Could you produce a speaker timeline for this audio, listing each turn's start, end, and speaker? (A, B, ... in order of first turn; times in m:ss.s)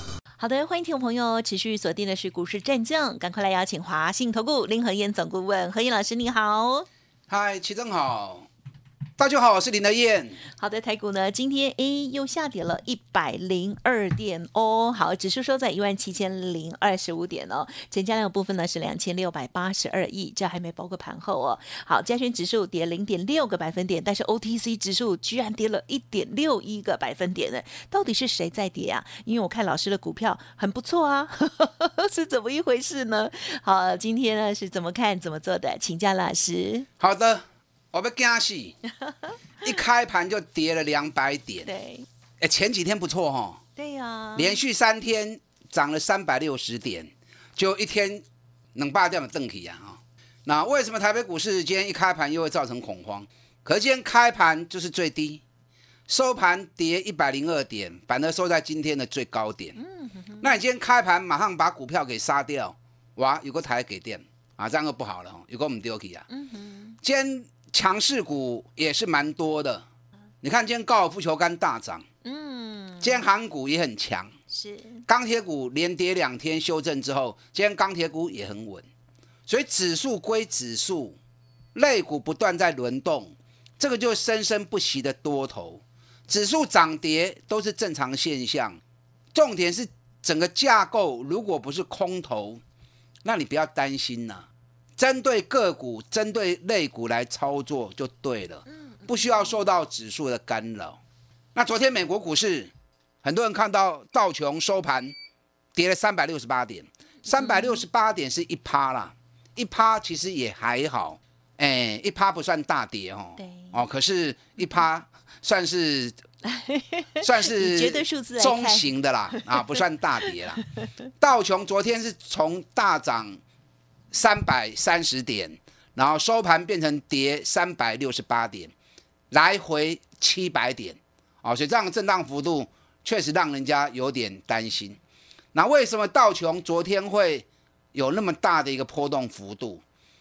0:00.4-0:06.9 A
0:07.3-0:08.5 B
0:09.2-0:10.4 B
0:10.6-0:36.9 A
0:37.0-0:38.8 B
0:39.6-0:41.7 B
0:41.6-0:42.0 A
0:42.4-0:43.6 B
0:43.8-0:44.6 A
0:44.4-0:48.2 B
0:48.7-0:55.4 B
0:56.1-0:59.8 B
0:59.8-1:00.4 A
1:00.4-1:06.2 B
1:06.3-1:07.0 A
1:07.0-1:09.8 B
1:10.4-1:12.0 B
1:12.2-1:13.2 A
1:13.0-1:14.3 B
1:14.5-1:15.0 A
1:15.1-1:18.8 B
1:19.5-1:21.2 B
1:21.7-1:28.8 B
1:29.3-1:32.6 B
1:33.2-1:34.4 B
1:35.0-1:41.0 B
1:39.0-1:39.4 A
1:41.5-1:42.7 B
1:43.2-1:45.1 B
1:45.7-1:56.2 B
1:47.3-1:47.8 A
1:53.4-1:53.7 A
1:56.4-1:59.7 A
1:57.2-2:00.6 B
2:01.2-2:03.4 B
2:04.1-2:08.7 B
2:09.3-2:15.0 B
2:15.5-2:19.8 B